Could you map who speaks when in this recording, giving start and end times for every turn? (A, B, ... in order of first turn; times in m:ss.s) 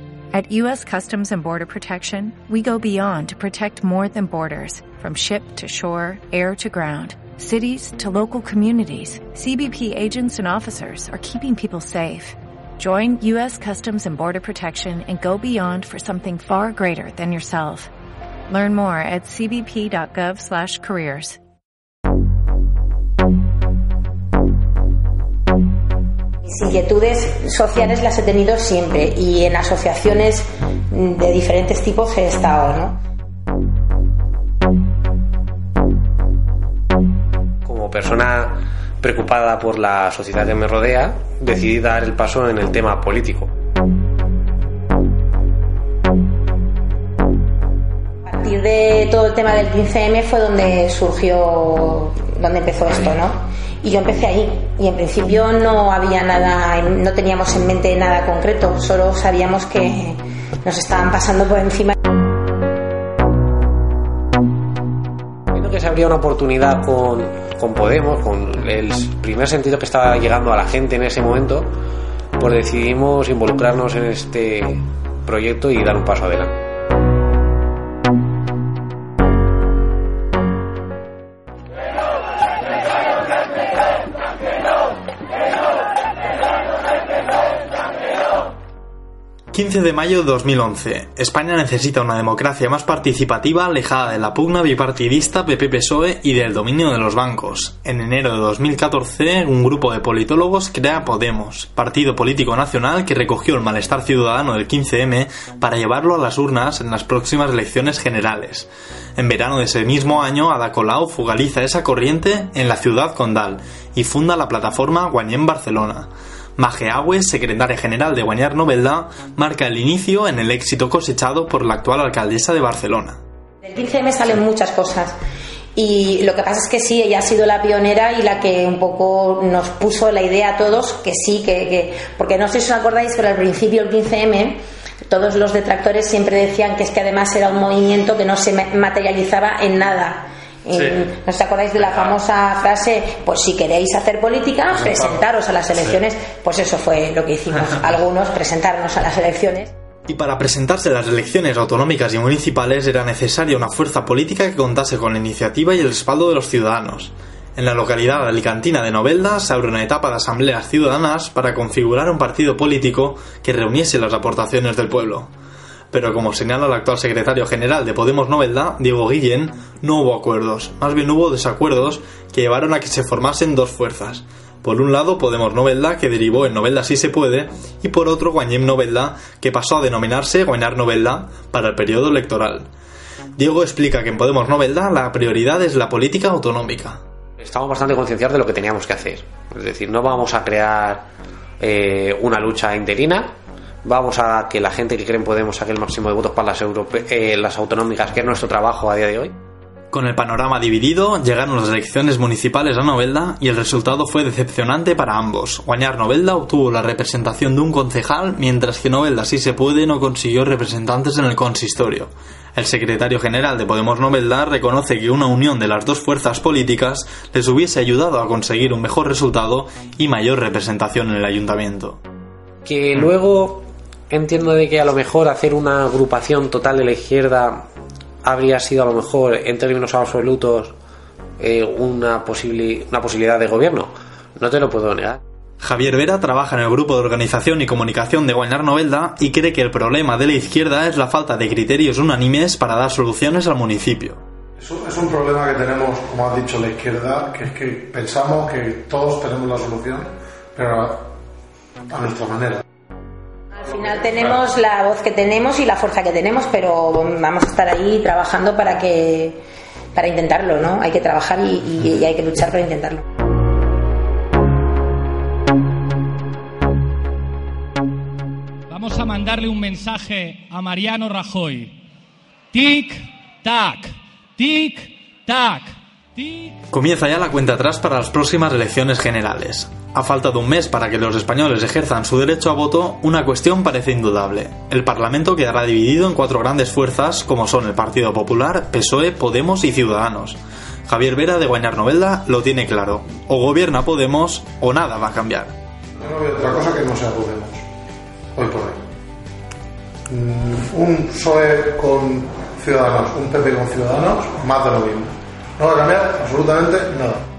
0:00.3-0:17.9 A
0:18.5-0:21.4 A
0:26.4-0:33.0 B
0:37.6-0:43.5 C
0:48.2-1:01.9 B
1:05.5-1:11.7 C
1:12.4-1:16.5 C
1:29.5-2:03.2 D
2:03.6-2:05.1 B
2:05.8-2:14.6 B
2:15.1-2:29.7 B
2:24.9-2:25.1 E
2:30.1-2:45.3 D
2:45.9-3:02.7 D
3:03.4-3:07.0 D
3:07.4-3:11.0 C
3:11.6-3:13.3 C
3:13.8-3:19.3 C
3:19.9-3:42.0 D
3:42.6-3:47.7 C
3:48.2-3:50.7 C
3:51.4-3:55.2 C
3:55.6-4:04.2 D
4:04.6-4:11.0 E
4:11.9-4:12.6 E
4:13.5-4:19.4 B
4:19.9-4:23.0 B
4:28.7-4:31.7 F
4:32.5-4:36.6 F
4:36.7-4:55.5 D
4:56.0-4:57.6 E
4:58.3-4:58.8 E
5:00.1-5:07.2 E